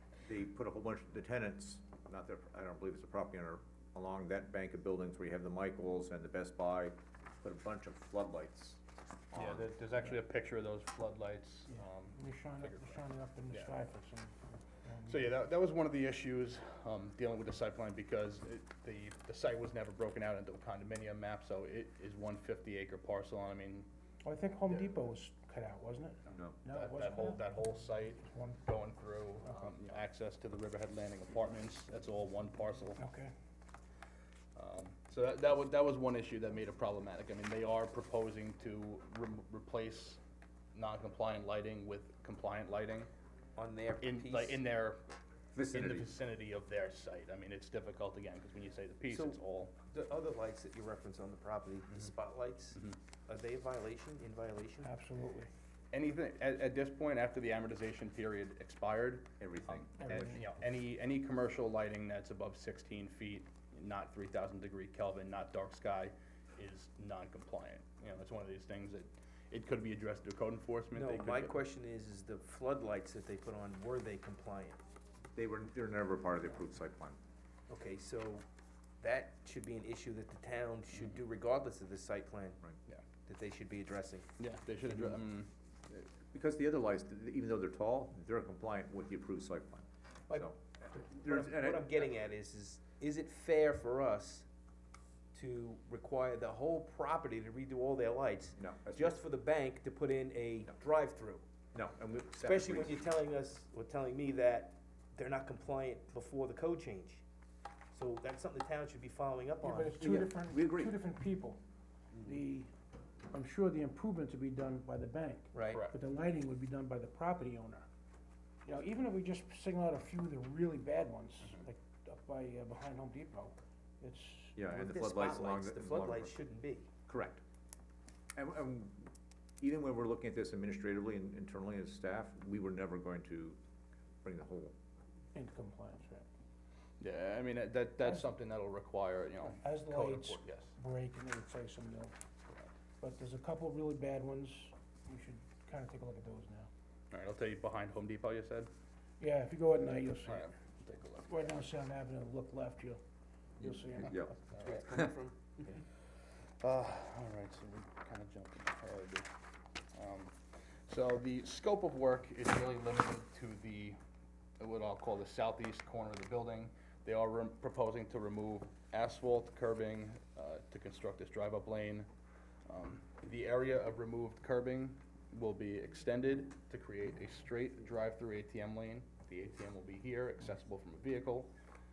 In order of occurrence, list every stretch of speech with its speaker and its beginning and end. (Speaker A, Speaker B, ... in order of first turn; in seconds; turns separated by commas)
Speaker A: 0.3-9.6, Speaker B: 9.3-13.8, Speaker C: 11.8-15.3, Speaker B: 15.1-23.9, Speaker C: 24.2-27.6, Speaker B: 26.3-33.0, Speaker C: 28.2-28.6, Speaker C: 33.0-33.3, Speaker B: 34.6-40.2, Speaker B: 40.8-43.1, Speaker D: 43.6-44.6, Speaker B: 44.0-45.0, Speaker A: 45.5-46.1, Speaker B: 45.7-49.8, Speaker D: 49.1-49.4, Speaker D: 49.9-54.9, Speaker C: 54.8-55.5, Speaker B: 55.9-71.6, Speaker A: 59.4-60.3, Speaker C: 60.0-60.5, Speaker D: 70.9-74.8, Speaker A: 75.3-77.2, Speaker D: 77.7-78.5, Speaker D: 79.0-82.6, Speaker D: 83.3-84.3, Speaker B: 84.4-85.5, Speaker A: 85.9-92.1, Speaker D: 91.1-94.5, Speaker D: 95.3-101.5, Speaker A: 98.6-99.2, Speaker A: 101.7-103.0, Speaker D: 102.4-107.2, Speaker D: 107.9-110.3, Speaker C: 109.6-111.6, Speaker A: 110.0-111.0, Speaker C: 112.2-112.7, Speaker C: 113.3-117.9, Speaker D: 115.5-115.8, Speaker B: 115.7-115.9, Speaker C: 118.7-124.8, Speaker A: 124.6-126.3, Speaker D: 124.8-126.9, Speaker A: 127.1-127.4, Speaker A: 128.4-133.6, Speaker A: 134.2-134.7, Speaker C: 135.3-136.3, Speaker B: 137.0-140.7, Speaker C: 139.5-142.1, Speaker C: 143.0-146.7, Speaker B: 147.1-148.7, Speaker C: 149.2-150.6, Speaker B: 150.3-151.6, Speaker C: 151.3-153.0, Speaker C: 153.6-154.4, Speaker A: 154.0-154.3, Speaker B: 154.5-154.9, Speaker D: 154.6-155.8, Speaker B: 156.6-159.3, Speaker B: 159.9-160.3, Speaker B: 160.9-164.0, Speaker B: 164.6-172.1, Speaker B: 172.7-181.5